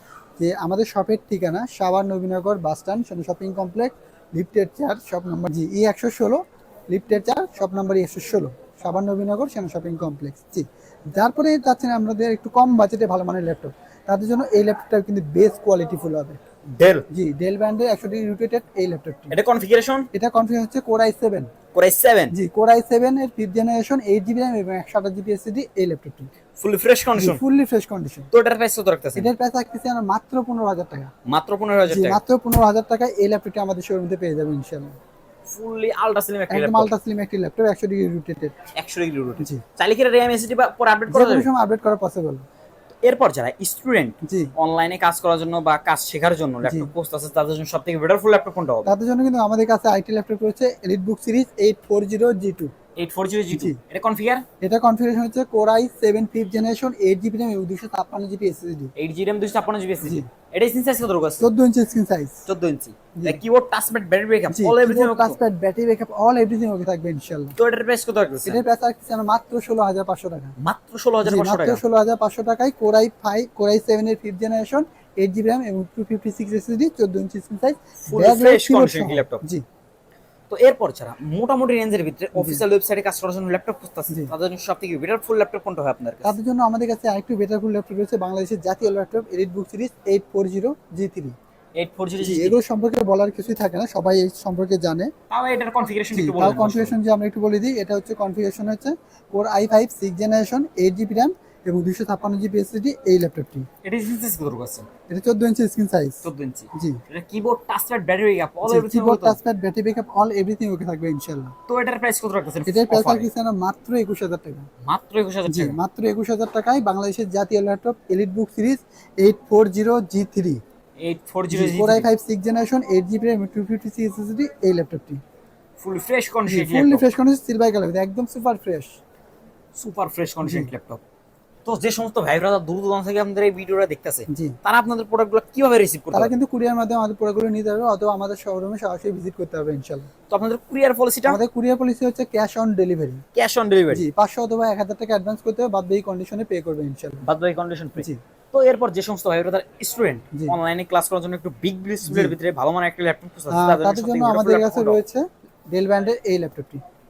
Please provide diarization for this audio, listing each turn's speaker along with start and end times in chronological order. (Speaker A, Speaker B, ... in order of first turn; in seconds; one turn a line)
Speaker A: 0.4-16.4
Speaker B: 16.7-17.1
Speaker A: 17.1-19.4
Speaker B: 19.3-20.1
Speaker A: 20.1-21.5
Speaker B: 21.7-22.3
Speaker A: 22.3-26.3
Speaker B: 26.6-27.4
Speaker A: 27.1-28.3
Speaker B: 28.3-29.3
Speaker A: 29.1-31.1
Speaker B: 31.2-32.2
Speaker A: 31.9-35.0
Speaker B: 35.5-36.9
Speaker A: 36.5-38.5
Speaker B: 38.8-41.5
Speaker A: 41.1-42.4
Speaker B: 43.0-48.9
Speaker A: 44.2-44.5
Speaker A: 46.6-46.9
Speaker A: 48.8-52.7
Speaker B: 53.0-54.4
Speaker A: 53.5-53.8
Speaker A: 54.6-58.9
Speaker B: 59.0-61.5
Speaker A: 60.0-60.3
Speaker A: 61.4-62.4
Speaker B: 62.5-65.4
Speaker A: 63.2-63.4
Speaker A: 64.5-67.5
Speaker B: 67.5-68.6
Speaker A: 68.5-70.5
Speaker B: 70.6-71.8
Speaker A: 71.2-79.6
Speaker B: 78.0-79.4
Speaker B: 80.5-86.3
Speaker A: 82.4-82.6
Speaker A: 86.2-91.3
Speaker B: 91.8-92.6
Speaker A: 92.2-95.1
Speaker B: 95.3-97.0
Speaker A: 96.1-103.7
Speaker B: 103.8-104.9
Speaker A: 105.1-107.0
Speaker B: 106.2-109.4
Speaker A: 108.6-111.5
Speaker B: 111.7-113.3
Speaker A: 112.7-114.7
Speaker B: 114.8-115.8
Speaker A: 115.5-120.6
Speaker B: 121.0-122.1
Speaker A: 121.5-125.2
Speaker B: 125.8-127.1
Speaker A: 126.5-128.9
Speaker B: 129.8-131.0
Speaker A: 130.4-130.7
Speaker B: 131.6-136.3
Speaker A: 134.3-134.6
Speaker A: 136.1-140.1
Speaker B: 140.3-141.4
Speaker A: 141.2-143.2
Speaker B: 143.3-144.0
Speaker A: 143.9-147.2
Speaker B: 147.2-155.0
Speaker A: 152.0-152.4
Speaker A: 153.5-156.8